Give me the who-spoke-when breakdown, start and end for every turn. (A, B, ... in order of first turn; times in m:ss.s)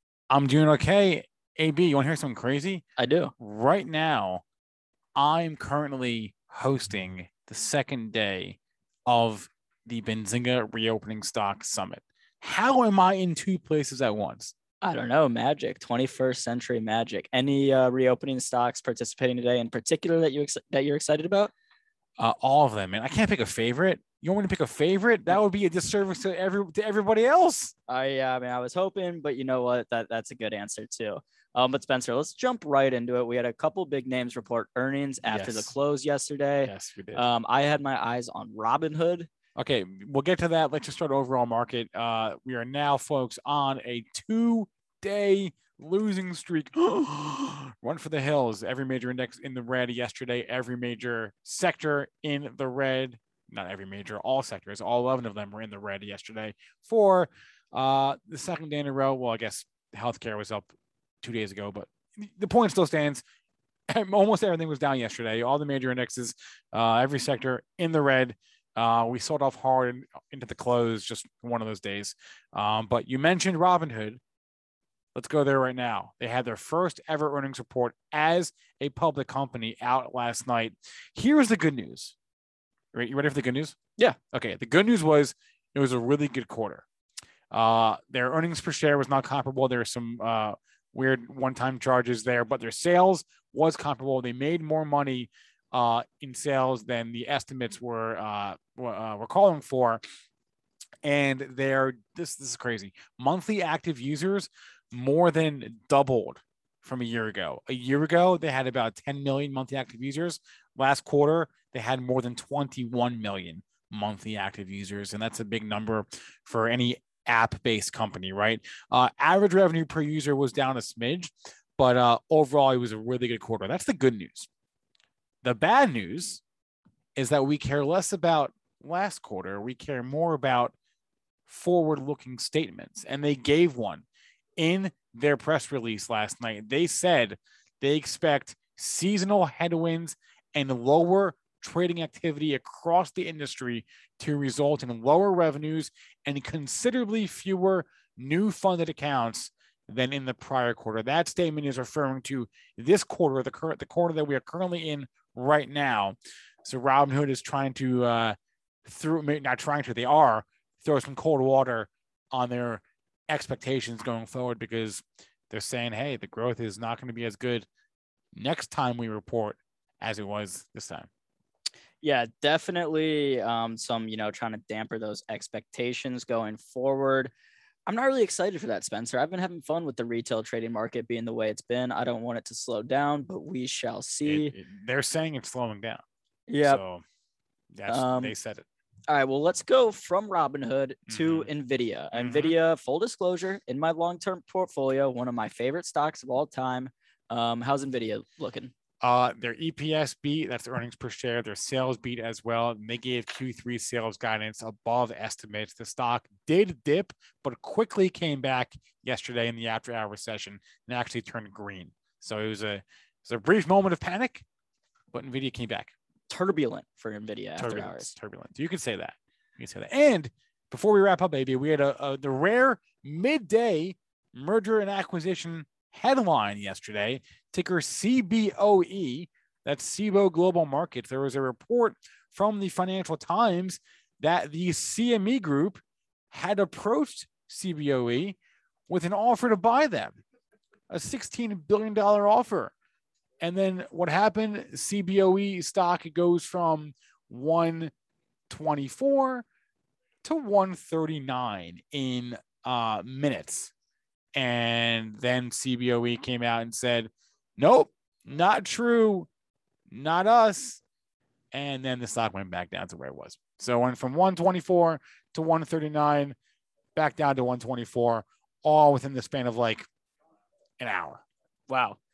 0:00.3-0:02.8 A
0:03.0-0:03.3 B
0:03.4-0:04.4 A
0:05.2-0:14.5 A
0:14.8-0:21.5 B
0:22.2-0:27.7 A
0:27.9-0:39.3 B
0:35.3-0:35.7 A
0:36.6-0:37.2 A
0:39.6-1:00.7 A
1:01.2-1:03.2 A
1:03.9-1:14.2 A
1:15.1-1:22.1 A
1:22.9-1:23.8 A
1:24.3-1:26.8 A
1:27.5-1:40.0 A
1:41.0-2:04.5 A
2:05.4-2:06.4 A
2:07.2-2:10.7 A
2:11.5-2:14.0 A
2:14.6-2:47.7 A
2:48.3-2:51.1 A
2:52.0-2:57.3 B
2:57.9-3:04.5 B
3:04.2-3:06.0 A
3:06.5-3:06.8 B
3:06.6-3:07.0 A
3:07.7-3:08.6 A
3:07.9-3:08.3 B
3:09.1-3:18.7 B
3:11.1-3:11.5 A
3:12.1-3:12.5 A
3:19.0-3:34.4 A
3:35.1-3:35.9 A
3:36.3-3:38.1 B
3:37.6-3:55.8 A
3:56.3-3:58.4 A
3:58.9-4:00.2 A
4:00.9-4:02.7 A
4:03.4-4:07.9 A
4:08.5-4:09.4 A
4:10.2-4:13.7 A
4:14.3-4:19.3 A
4:19.9-4:20.8 A
4:21.5-4:26.4 A
4:26.9-4:29.8 A
4:30.8-4:31.2 A
4:31.7-4:32.0 B